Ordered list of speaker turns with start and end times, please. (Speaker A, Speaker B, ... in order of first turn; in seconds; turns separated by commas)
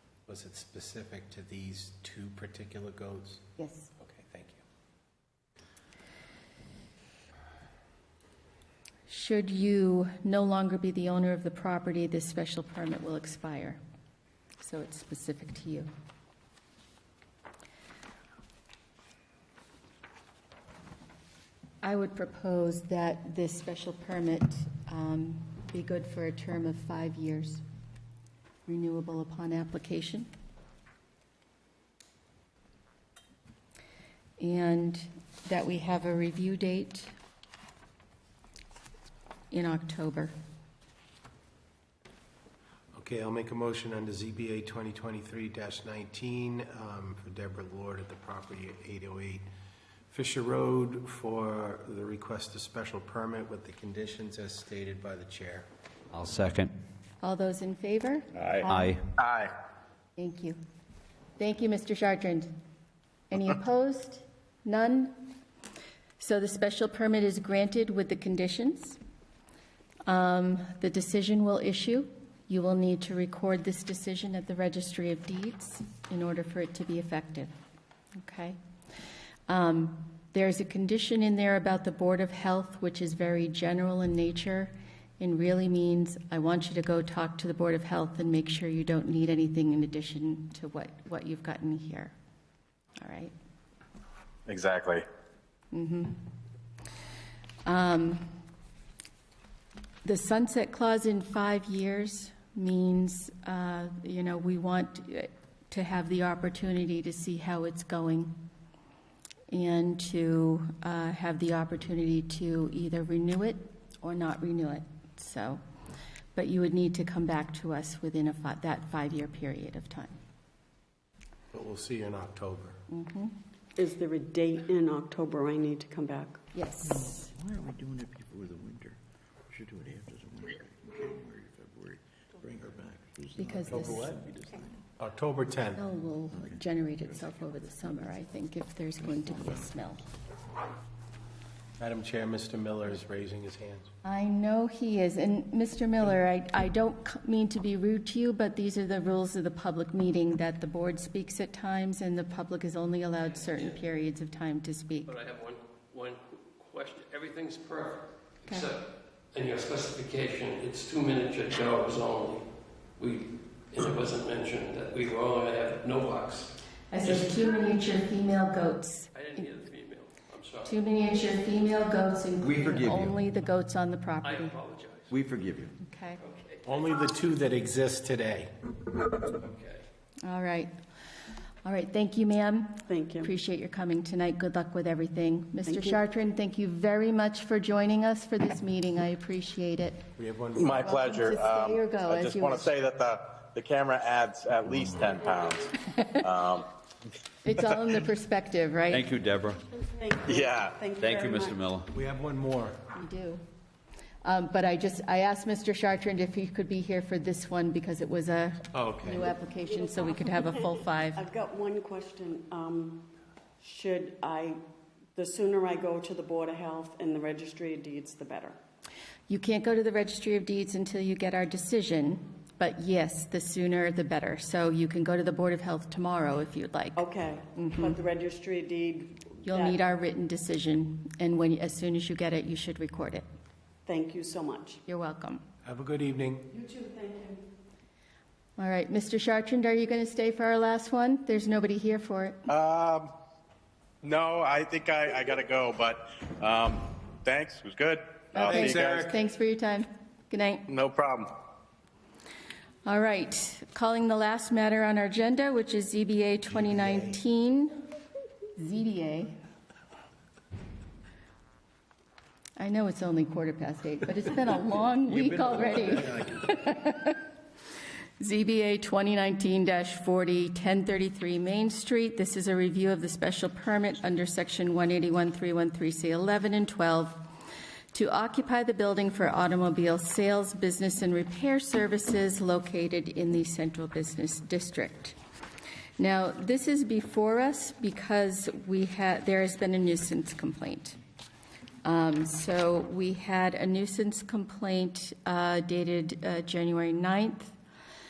Speaker A: 0.3-3.4, Speaker B: 3.6-3.9, Speaker A: 4.0-4.6, Speaker B: 9.1-13.8, Speaker B: 14.6-15.9, Speaker B: 21.8-27.6, Speaker B: 28.7-30.3, Speaker B: 34.4-37.1, Speaker B: 39.5-40.3, Speaker A: 42.9-49.5, Speaker A: 50.1-55.7, Speaker C: 56.1-56.7, Speaker B: 57.2-58.9, Speaker C: 58.7-59.1, Speaker D: 59.2-59.5, Speaker B: 60.2-60.6, Speaker B: 61.4-62.5, Speaker B: 63.3-65.3, Speaker B: 66.2-69.0, Speaker B: 70.1-77.5, Speaker B: 78.2-78.6, Speaker B: 79.5-92.2, Speaker B: 93.0-93.3, Speaker D: 94.5-95.0, Speaker B: 95.7-96.3, Speaker B: 97.7-98.3, Speaker B: 100.0-108.3, Speaker B: 109.5-115.6, Speaker B: 116.3-120.2, Speaker A: 121.5-122.8, Speaker B: 122.9-123.3, Speaker D: 123.8-126.4, Speaker B: 126.5-127.3, Speaker E: 126.8-129.0, Speaker E: 129.5-134.8, Speaker B: 133.4-134.1, Speaker A: 133.7-134.2, Speaker A: 135.0-135.8, Speaker B: 135.8-140.1, Speaker E: 136.3-138.2, Speaker E: 139.0-139.8, Speaker A: 141.8-143.9, Speaker B: 144.0-155.1, Speaker F: 153.2-153.8, Speaker F: 155.1-162.4, Speaker F: 163.0-167.4, Speaker B: 166.9-169.5, Speaker F: 169.1-170.7, Speaker B: 170.7-174.6, Speaker E: 172.4-173.2, Speaker F: 174.2-175.1, Speaker E: 175.1-175.7, Speaker B: 175.8-176.2, Speaker F: 176.2-176.9, Speaker A: 176.7-178.5, Speaker F: 179.4-179.8, Speaker B: 180.2-180.7, Speaker B: 181.7-190.1, Speaker D: 182.9-183.3, Speaker D: 185.7-186.0, Speaker A: 190.2-190.9, Speaker G: 190.6-193.0, Speaker B: 190.7-192.7, Speaker D: 192.6-195.6, Speaker G: 193.6-194.0, Speaker G: 194.9-195.5, Speaker G: 196.2-196.6, Speaker D: 196.2-196.6, Speaker B: 197.4-199.1, Speaker C: 198.9-199.6, Speaker D: 199.8-201.6, Speaker B: 200.3-200.7, Speaker C: 201.0-201.9, Speaker A: 201.9-202.8, Speaker B: 202.9-203.4, Speaker B: 204.2-211.2, Speaker A: 208.7-209.3, Speaker D: 209.8-213.1, Speaker D: 213.6-214.6, Speaker D: 215.2-218.6, Speaker B: 219.3-228.0, Speaker D: 226.9-229.8, Speaker B: 229.4-233.3, Speaker D: 233.9-234.8, Speaker B: 234.9-235.4, Speaker A: 235.7-236.5, Speaker D: 236.5-237.4, Speaker B: 238.6-242.5, Speaker G: 242.6-243.1, Speaker D: 244.0-246.8, Speaker G: 244.2-245.8, Speaker G: 247.2-248.0, Speaker D: 247.3-248.8, Speaker B: 248.3-250.7, Speaker A: 248.4-249.2, Speaker G: 248.6-248.9, Speaker G: 250.7-251.2, Speaker D: 250.7-251.2, Speaker B: 252.9-257.8, Speaker B: 258.6-259.4, Speaker B: 262.6-267.2, Speaker E: 265.1-266.7, Speaker B: 268.2-277.2, Speaker B: 277.9-285.2, Speaker B: 286.0-291.0, Speaker B: 291.8-297.5